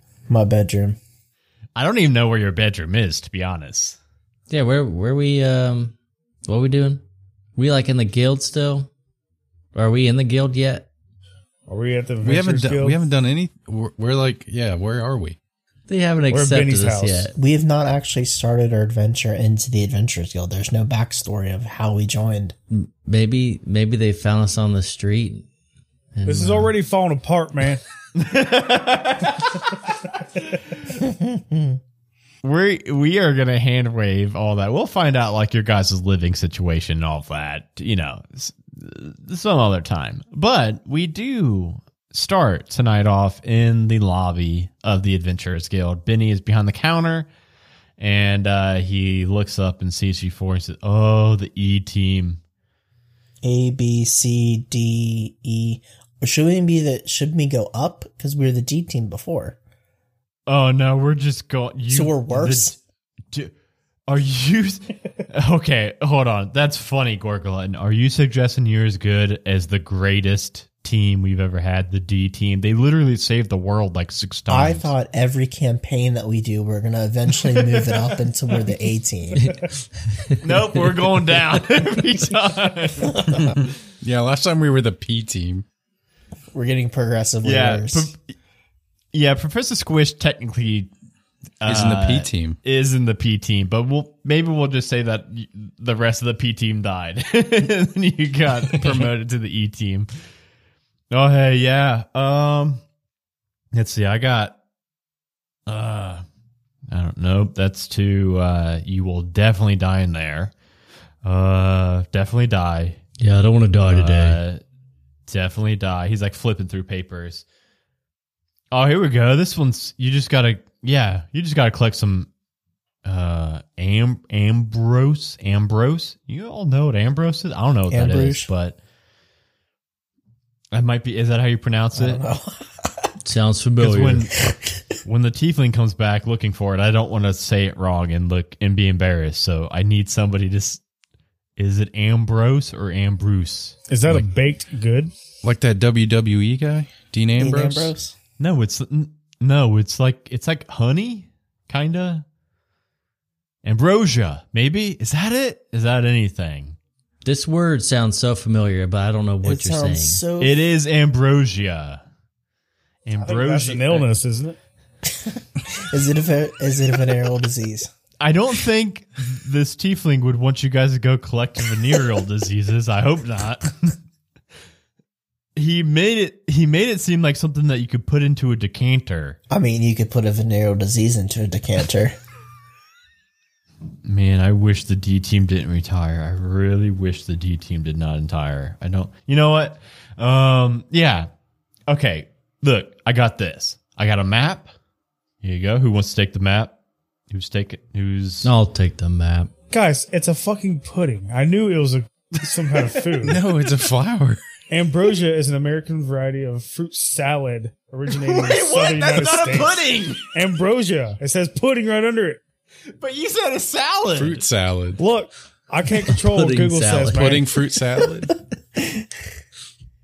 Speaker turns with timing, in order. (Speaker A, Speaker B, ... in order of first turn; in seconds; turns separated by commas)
Speaker A: 0.3-1.0, Speaker B: 1.8-4.0, Speaker C: 4.5-6.0, Speaker C: 6.5-7.0, Speaker C: 7.6-8.9, Speaker C: 9.8-10.9, Speaker D: 11.7-13.0, Speaker E: 12.2-15.4, Speaker C: 15.9-17.3, Speaker D: 16.3-17.3, Speaker A: 17.4-22.6, Speaker C: 22.7-25.5, Speaker C: 26.1-26.7, Speaker D: 26.2-27.8, Speaker B: 28.2-30.9, Speaker A: 31.0-31.7, Speaker B: 32.4-47.3, Speaker B: 48.0-52.4, Speaker A: 53.4-59.6, Speaker B: 60.5-62.8, Speaker A: 61.9-62.8, Speaker B: 64.1-74.9, Speaker A: 74.5-79.6, Speaker C: 79.4-80.4, Speaker B: 80.4-83.3, Speaker A: 83.2-83.5, Speaker E: 83.3-85.7, Speaker A: 86.5-88.1, Speaker B: 87.4-88.2, Speaker B: 89.1-90.9, Speaker B: 91.6-100.1, Speaker E: 91.7-92.6, Speaker B: 101.1-102.8, Speaker B: 103.7-104.6, Speaker B: 105.7-106.2, Speaker B: 106.9-110.5, Speaker B: 111.2-113.0, Speaker C: 113.2-114.4, Speaker B: 113.9-114.6, Speaker B: 115.3-117.4, Speaker B: 118.7-122.3, Speaker B: 123.0-128.8, Speaker A: 127.9-128.5, Speaker B: 130.7-132.2, Speaker A: 131.9-132.9, Speaker C: 133.2-134.4, Speaker B: 133.8-134.4, Speaker B: 135.0-140.8, Speaker B: 141.6-144.3, Speaker D: 143.9-145.1, Speaker E: 145.4-147.9, Speaker A: 147.4-148.2, Speaker B: 148.4-152.2, Speaker B: 153.6-156.8, Speaker C: 157.2-160.2, Speaker A: 159.4-160.6, Speaker B: 160.4-162.0, Speaker B: 163.1-164.1, Speaker D: 163.2-164.6, Speaker A: 165.1-167.9, Speaker B: 168.2-174.0, Speaker B: 175.6-179.4, Speaker A: 179.5-182.2, Speaker B: 184.0-191.3, Speaker B: 191.9-194.7, Speaker B: 195.4-196.7, Speaker B: 197.3-198.5, Speaker C: 198.4-199.5, Speaker D: 199.7-203.4, Speaker E: 203.2-204.4, Speaker D: 204.7-212.4, Speaker B: 208.1-210.3, Speaker B: 213.0-214.5, Speaker E: 214.2-215.0, Speaker D: 215.0-217.5, Speaker C: 216.1-217.4, Speaker E: 217.1-218.3, Speaker A: 218.8-219.1